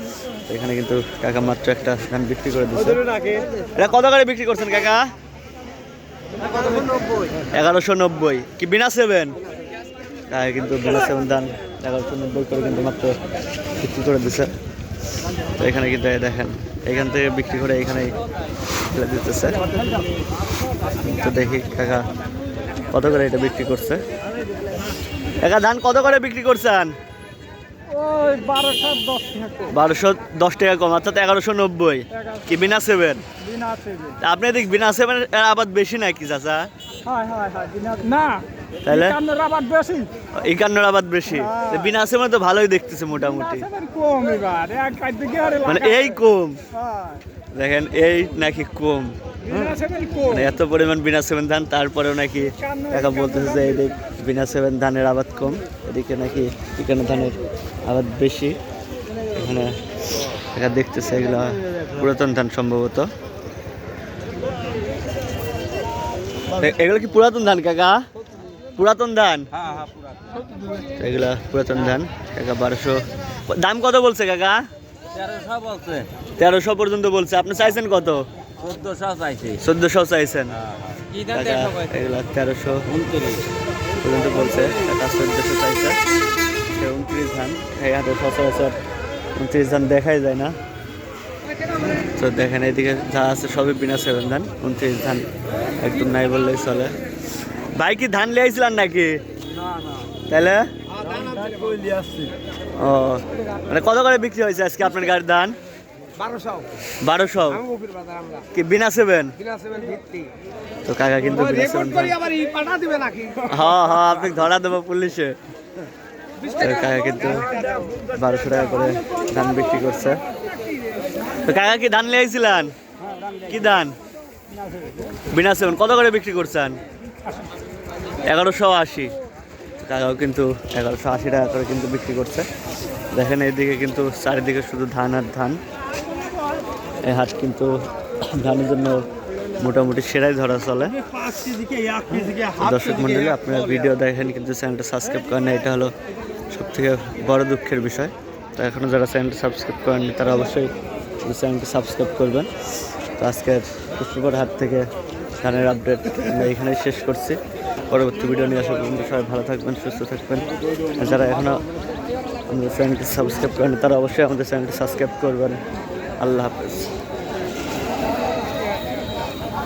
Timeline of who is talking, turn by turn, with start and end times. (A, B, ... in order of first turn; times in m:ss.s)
0:00.5-0:03.0 A
0:03.7-0:05.0 A
0:07.5-0:09.4 A
0:10.3-0:13.2 A
0:13.8-0:14.5 A
0:15.6-0:18.1 A
0:18.9-0:19.7 A
0:21.0-0:22.0 A
0:22.9-0:24.0 A
0:25.4-0:27.0 A
0:27.9-0:29.7 B
0:29.7-0:33.2 A
0:33.4-0:34.2 B
0:34.2-0:36.7 A
0:37.1-0:38.4 B
0:38.8-0:39.2 A
0:39.0-0:40.1 B
0:40.3-0:43.7 A
0:41.5-0:41.7 B
0:43.7-0:45.8 B
0:45.6-0:46.6 A
0:46.9-0:47.2 B
0:47.6-0:49.2 A
0:49.5-0:50.3 B
0:50.2-0:58.6 A
0:52.7-0:53.4 B
0:59.3-0:59.8 A
1:00.5-1:03.1 A
1:06.6-1:08.0 A
1:08.8-1:09.5 A
1:09.6-1:09.9 C
1:11.0-1:14.6 A
1:15.1-1:16.1 C
1:16.4-1:18.2 A
1:18.6-1:19.6 C
1:19.6-1:20.6 A
1:20.8-1:21.9 C
1:21.3-1:23.0 A
1:22.9-1:23.4 C
1:24.0-1:26.0 A
1:26.8-1:28.8 A
1:29.4-1:30.6 A
1:32.0-1:36.9 A
1:37.6-1:39.2 A
1:40.3-1:40.7 A
1:41.1-1:42.0 C
1:42.8-1:45.6 A
1:47.0-1:47.7 A
1:48.5-1:49.4 A
1:50.9-1:52.3 A
1:52.5-1:53.3 C
1:53.4-1:55.4 A
1:56.5-2:00.2 A
2:01.4-2:02.7 A
2:03.4-2:03.9 A
2:05.3-2:06.8 A
2:08.3-2:09.1 A
2:09.8-2:12.5 A
2:13.1-2:15.6 A
2:17.0-2:17.7 A
2:18.2-2:19.1 A
2:19.6-2:21.0 A
2:22.1-2:25.9 A
2:26.5-2:32.5 A
2:33.2-2:34.9 A
2:35.4-2:41.6 A
2:42.5-2:45.6 A
2:46.2-2:46.9 A